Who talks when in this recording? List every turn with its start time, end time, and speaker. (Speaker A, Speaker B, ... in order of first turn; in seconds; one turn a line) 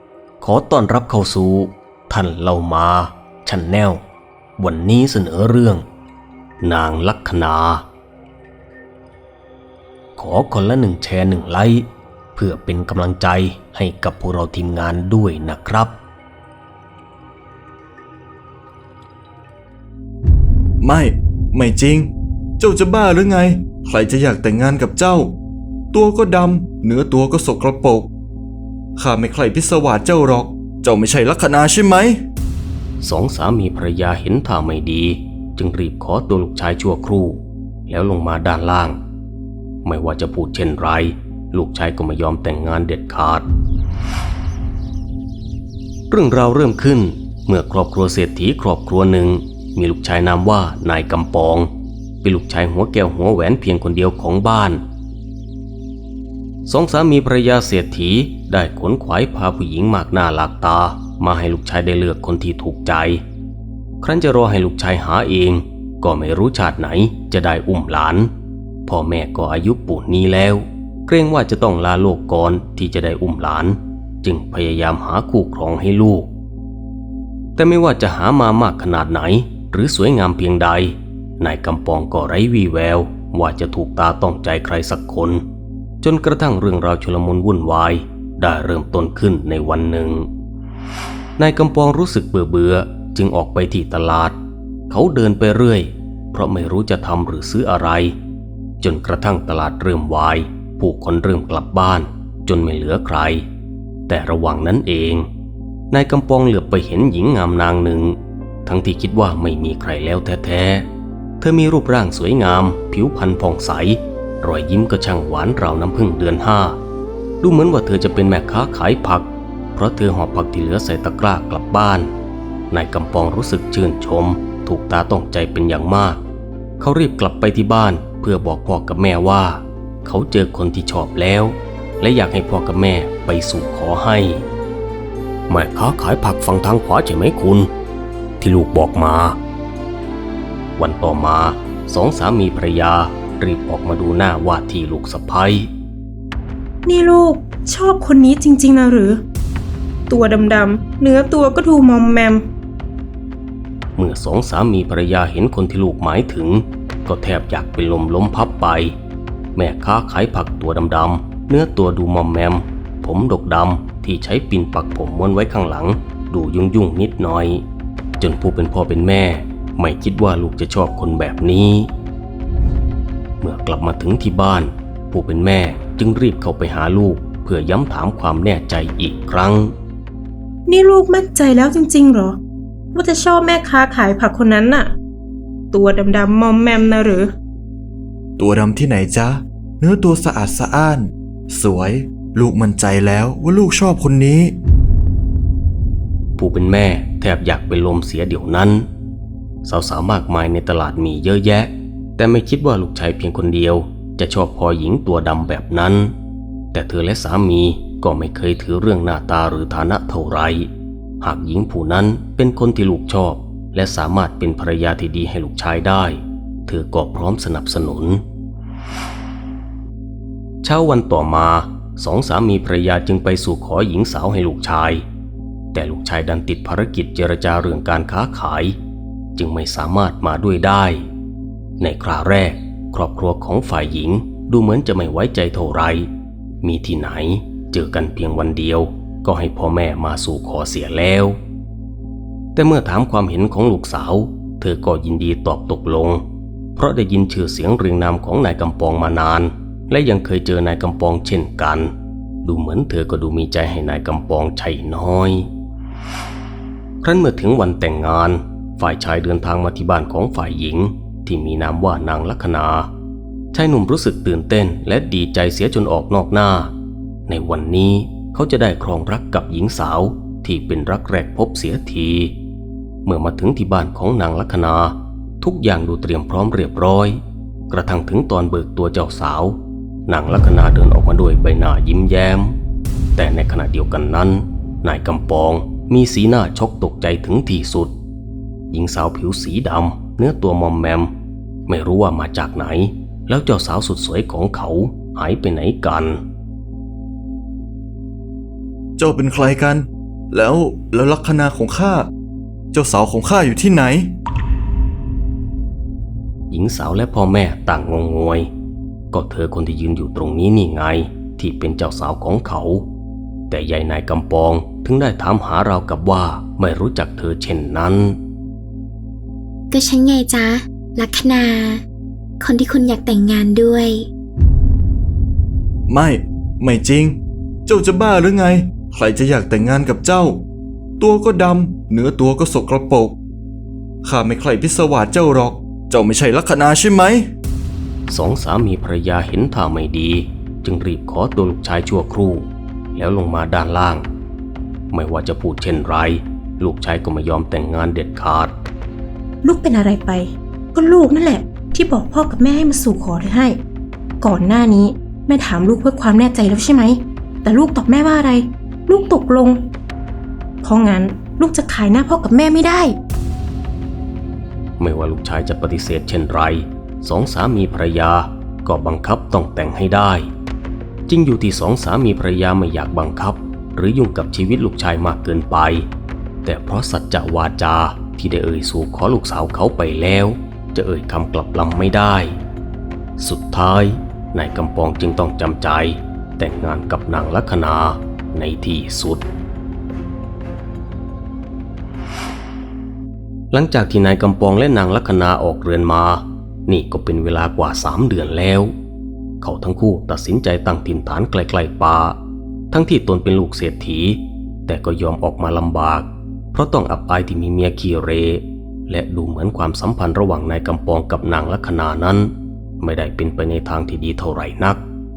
Speaker A: 0.4-4.0
Speaker A: 4.6-5.8
Speaker A: 6.6-7.8
Speaker A: 10.2-16.0
Speaker B: 20.8-25.4
Speaker B: 25.9-28.1
Speaker B: 29.0-32.2
Speaker A: 33.0-39.0
Speaker A: 39.8-43.5
Speaker A: 46.1-51.7
Speaker A: 52.2-54.8
Speaker A: 56.6-63.2
Speaker A: 64.0-68.3
Speaker A: 68.8-76.3
Speaker A: 77.5-85.4
Speaker A: 86.0-90.3
Speaker A: 91.4-94.3
Speaker A: 94.9-98.2
Speaker A: 98.8-103.5
Speaker A: 104.1-105.3
Speaker A: 105.9-110.9
Speaker A: 111.4-116.8
Speaker A: 117.4-122.1
Speaker A: 122.7-126.2
Speaker A: 126.8-134.4
Speaker A: 135.5-137.7
Speaker A: 138.4-139.4
Speaker A: 140.8-145.7
Speaker C: 146.8-149.2
Speaker C: 150.1-152.4
Speaker A: 153.9-158.9
Speaker A: 159.5-167.6
Speaker A: 168.2-171.9
Speaker A: 173.4-179.7
Speaker C: 180.7-182.4
Speaker C: 182.9-184.9
Speaker C: 185.7-187.3
Speaker B: 188.4-194.5
Speaker A: 196.4-198.8
Speaker A: 199.6-206.1
Speaker A: 206.7-210.7
Speaker A: 211.2-218.2
Speaker A: 220.6-225.0
Speaker A: 225.7-228.8
Speaker A: 229.3-231.1
Speaker A: 231.8-236.1
Speaker A: 236.6-241.4
Speaker A: 242.5-246.2
Speaker A: 246.8-251.9
Speaker A: 252.4-255.5
Speaker A: 257.0-262.9
Speaker A: 263.5-266.7
Speaker A: 267.3-272.3
Speaker A: 273.0-282.5
Speaker A: 283.1-287.9
Speaker A: 288.7-291.1
Speaker A: 291.7-296.2
Speaker B: 299.0-302.1
Speaker B: 302.7-304.1
Speaker A: 306.5-308.5
Speaker A: 309.1-312.9
Speaker A: 313.5-318.2
Speaker D: 319.7-321.8
Speaker D: 322.4-324.1
Speaker B: 325.9-330.4
Speaker B: 331.0-333.2
Speaker B: 334.0-337.3
Speaker A: 338.1-344.1
Speaker A: 344.9-348.5
Speaker C: 349.4-353.6
Speaker C: 354.2-359.7
Speaker C: 360.6-363.0
Speaker A: 364.8-370.3
Speaker A: 371.1-375.9
Speaker A: 376.4-382.4
Speaker A: 383.2-389.2
Speaker A: 393.5-398.7
Speaker A: 399.4-402.2
Speaker A: 402.7-414.8